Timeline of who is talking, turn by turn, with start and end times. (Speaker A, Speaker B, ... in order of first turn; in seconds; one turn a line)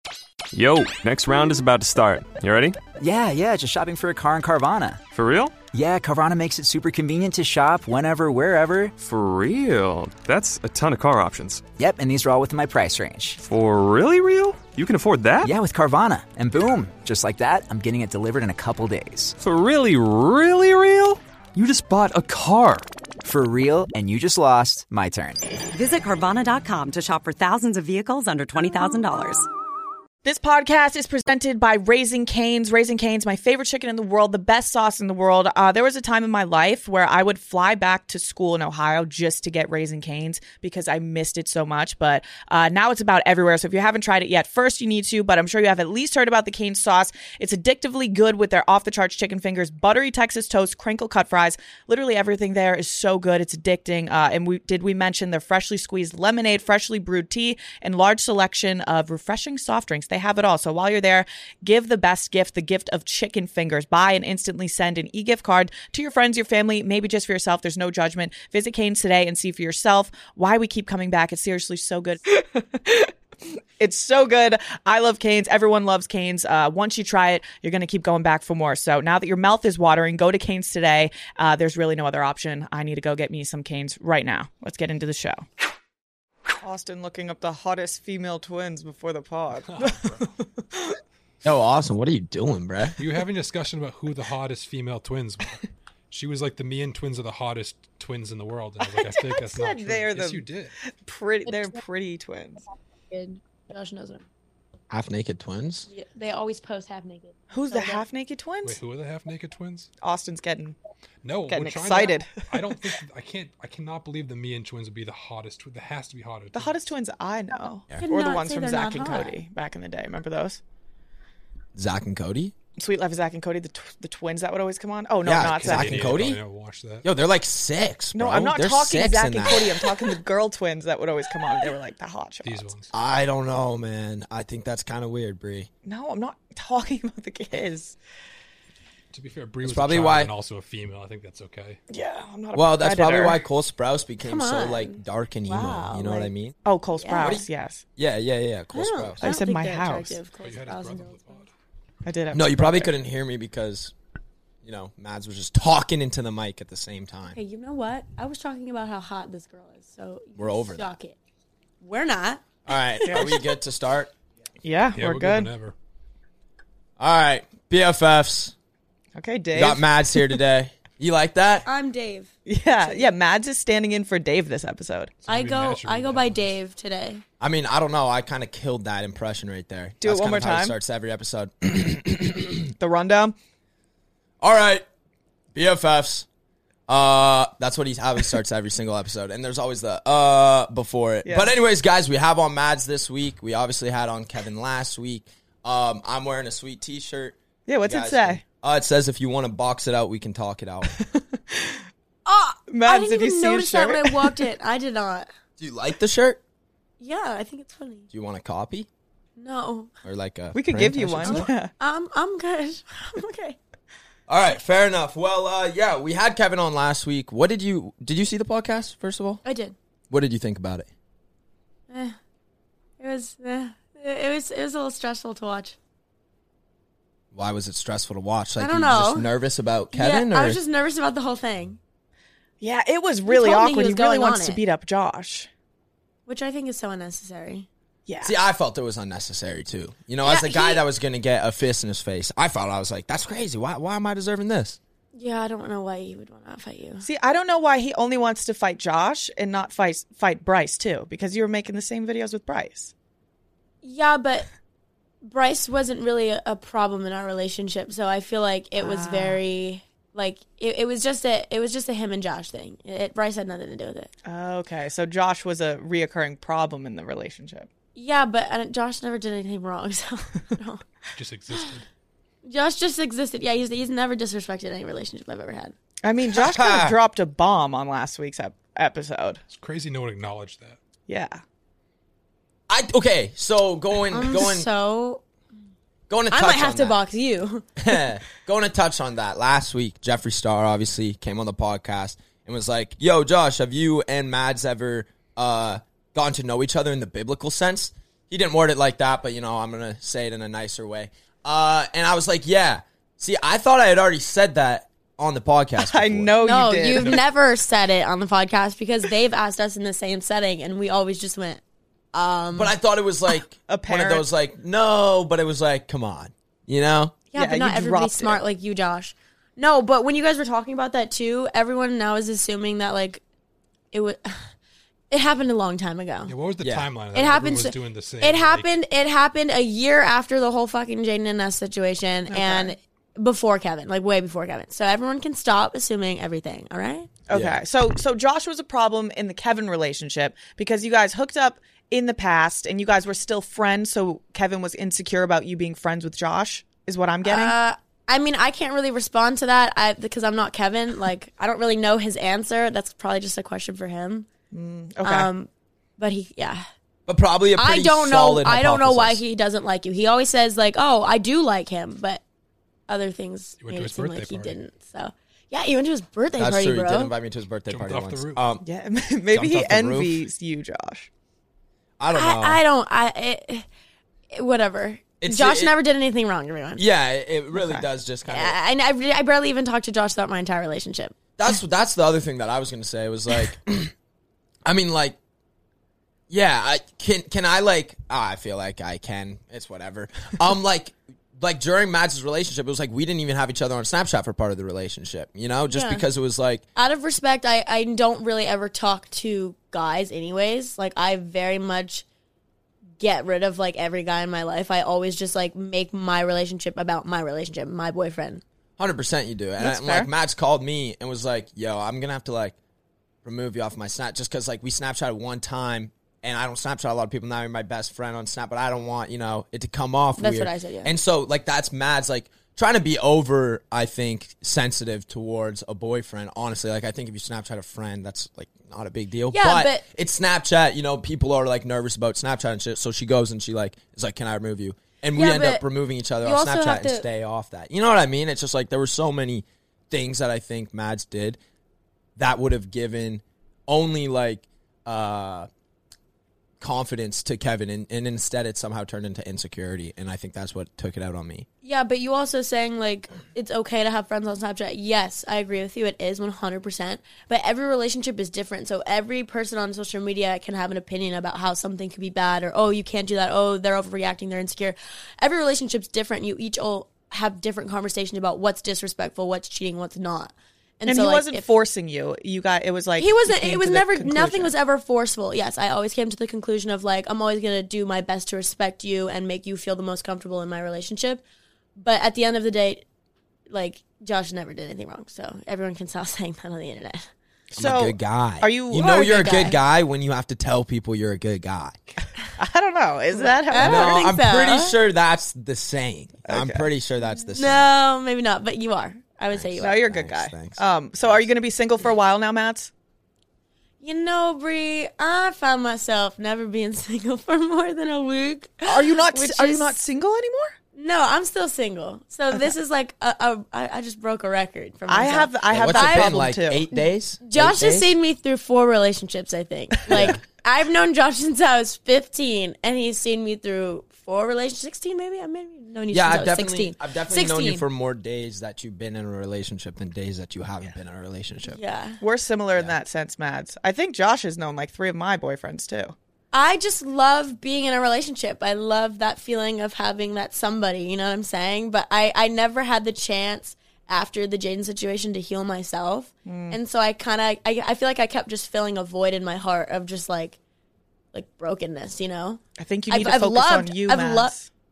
Speaker A: 0.5-2.8
Speaker B: 3.0-5.0
Speaker A: 5.1-5.5
Speaker B: 5.7-8.9
Speaker A: 9.0-11.6
Speaker B: 11.8-13.4
Speaker A: 13.4-15.4
Speaker B: 15.4-19.3
Speaker A: 19.4-22.9
Speaker B: 23.2-25.4
Speaker C: 25.7-29.5
Speaker D: 30.2-85.4
Speaker D: 86.6-91.0
Speaker E: 89.7-90.2
Speaker F: 91.4-93.0
Speaker E: 93.0-95.6
Speaker E: 96.1-100.8
Speaker D: 98.8-102.6
Speaker G: 101.5-101.8
Speaker G: 103.1-104.2
Speaker F: 104.9-105.9
Speaker G: 105.9-108.0
Speaker D: 107.5-108.8
Speaker E: 108.6-109.9
Speaker D: 110.0-110.8
Speaker E: 111.2-116.9
Speaker D: 111.5-112.9
Speaker D: 116.5-120.6
Speaker G: 118.0-119.3
Speaker F: 121.8-122.5
Speaker D: 122.8-126.2
Speaker F: 125.2-126.4
Speaker E: 125.6-127.0
Speaker F: 127.0-129.9
Speaker D: 128.1-132.7
Speaker E: 132.4-132.9
Speaker F: 132.9-135.7
Speaker D: 135.8-137.9
Speaker E: 139.1-141.8
Speaker F: 139.6-140.3
Speaker D: 141.9-143.4
Speaker F: 142.5-146.5
Speaker G: 144.2-146.3
Speaker D: 146.6-147.8
Speaker G: 147.0-147.3
Speaker F: 147.2-147.4
Speaker F: 148.0-149.2
Speaker G: 148.7-151.4
Speaker D: 149.2-150.2
Speaker E: 150.4-151.5
Speaker D: 152.0-152.9
Speaker F: 152.3-153.9
Speaker F: 154.6-157.4
Speaker G: 157.3-161.2
Speaker F: 160.4-160.9
Speaker G: 161.8-162.4
Speaker F: 162.7-164.1
Speaker D: 163.1-163.3
Speaker D: 164.6-165.5
Speaker E: 164.9-165.7
Speaker F: 167.0-168.5
Speaker D: 169.1-170.4
Speaker F: 169.5-171.7
Speaker G: 171.7-173.1
Speaker D: 172.4-175.1
Speaker E: 175.2-176.4
Speaker G: 175.3-177.2
Speaker F: 177.4-182.7
Speaker D: 180.0-180.7
Speaker D: 182.8-183.3
Speaker F: 184.4-184.8
Speaker F: 185.5-186.3
Speaker F: 186.9-200.9
Speaker D: 191.2-191.5
Speaker D: 197.7-198.4
Speaker D: 201.0-201.8
Speaker G: 202.2-205.3
Speaker D: 202.7-204.4
Speaker F: 205.6-206.4
Speaker G: 207.0-208.1
Speaker F: 208.1-208.9
Speaker G: 209.4-209.9
Speaker F: 210.0-211.5
Speaker D: 210.5-211.7
Speaker G: 211.3-213.6
Speaker F: 214.3-219.4
Speaker G: 219.4-219.7
Speaker F: 220.1-220.9
Speaker G: 221.9-222.2
Speaker G: 223.0-225.8
Speaker F: 227.3-230.6
Speaker G: 228.6-229.3
Speaker G: 229.9-231.8
Speaker D: 232.6-235.5
Speaker G: 233.3-234.6
Speaker G: 236.3-237.7
Speaker D: 238.1-238.3
Speaker F: 238.2-244.8
Speaker G: 240.2-240.8
Speaker G: 245.1-247.0
Speaker D: 247.0-252.9
Speaker G: 253.8-254.5
Speaker G: 255.2-264.1
Speaker D: 258.8-259.4
Speaker D: 264.2-267.7
Speaker G: 267.9-270.8
Speaker E: 271.1-271.8
Speaker G: 272.4-275.7
Speaker D: 276.0-279.4
Speaker F: 276.3-277.0
Speaker E: 279.5-280.8
Speaker D: 281.1-281.4
Speaker F: 282.7-284.7
Speaker G: 284.1-285.2
Speaker F: 286.1-287.0
Speaker G: 286.3-287.7
Speaker F: 287.8-306.3
Speaker D: 305.8-307.2
Speaker G: 306.4-311.6
Speaker G: 312.1-312.7
Speaker F: 312.5-317.2
Speaker D: 313.7-314.2
Speaker D: 317.3-318.4
Speaker G: 317.3-323.2
Speaker G: 323.9-324.5
Speaker G: 325.1-326.3
Speaker E: 326.3-328.7
Speaker F: 326.6-326.9
Speaker G: 327.1-337.1
Speaker D: 332.3-332.7
Speaker D: 337.3-347.5
Speaker F: 337.3-337.6
Speaker G: 347.2-354.3
Speaker D: 354.5-355.3
Speaker G: 355.0-356.6
Speaker F: 357.1-359.2
Speaker G: 357.6-362.2
Speaker G: 362.9-367.1
Speaker E: 363.6-364.6
Speaker F: 366.4-368.6
Speaker E: 367.7-368.4
Speaker D: 368.6-371.1
Speaker F: 369.3-370.2
Speaker F: 372.0-372.6
Speaker G: 372.1-373.7
Speaker G: 374.3-376.8
Speaker F: 375.2-375.7
Speaker F: 376.8-378.6
Speaker D: 377.5-377.8
Speaker G: 378.3-381.1
Speaker F: 381.4-383.9
Speaker F: 384.6-385.2
Speaker F: 386.3-396.6
Speaker G: 395.7-396.0
Speaker G: 396.7-402.0
Speaker G: 403.0-408.4
Speaker F: 408.8-412.6
Speaker D: 409.6-410.1
Speaker F: 413.2-441.4
Speaker G: 420.2-420.9
Speaker G: 429.3-429.8
Speaker G: 435.1-435.6
Speaker G: 436.2-437.1
Speaker F: 442.1-445.5
Speaker F: 446.6-451.5
Speaker G: 451.6-471.4
Speaker D: 470.9-474.5
Speaker G: 473.0-481.2
Speaker G: 481.8-482.8
Speaker G: 483.5-487.1
Speaker D: 487.5-488.9
Speaker F: 487.5-491.8
Speaker G: 488.8-489.6
Speaker D: 492.4-494.0
Speaker G: 493.2-494.8
Speaker F: 493.6-497.7
Speaker D: 496.2-496.7
Speaker G: 497.2-499.8
Speaker F: 499.3-501.3
Speaker D: 499.6-502.7
Speaker G: 503.8-509.8
Speaker D: 508.6-510.5
Speaker G: 510.7-516.1
Speaker D: 514.9-516.6
Speaker F: 515.5-517.9
Speaker G: 516.7-527.6
Speaker F: 519.9-520.2
Speaker F: 525.9-531.6
Speaker G: 531.5-532.0
Speaker D: 532.0-535.9
Speaker G: 536.3-550.4
Speaker D: 546.2-546.6
Speaker G: 551.1-554.3
Speaker D: 552.6-554.5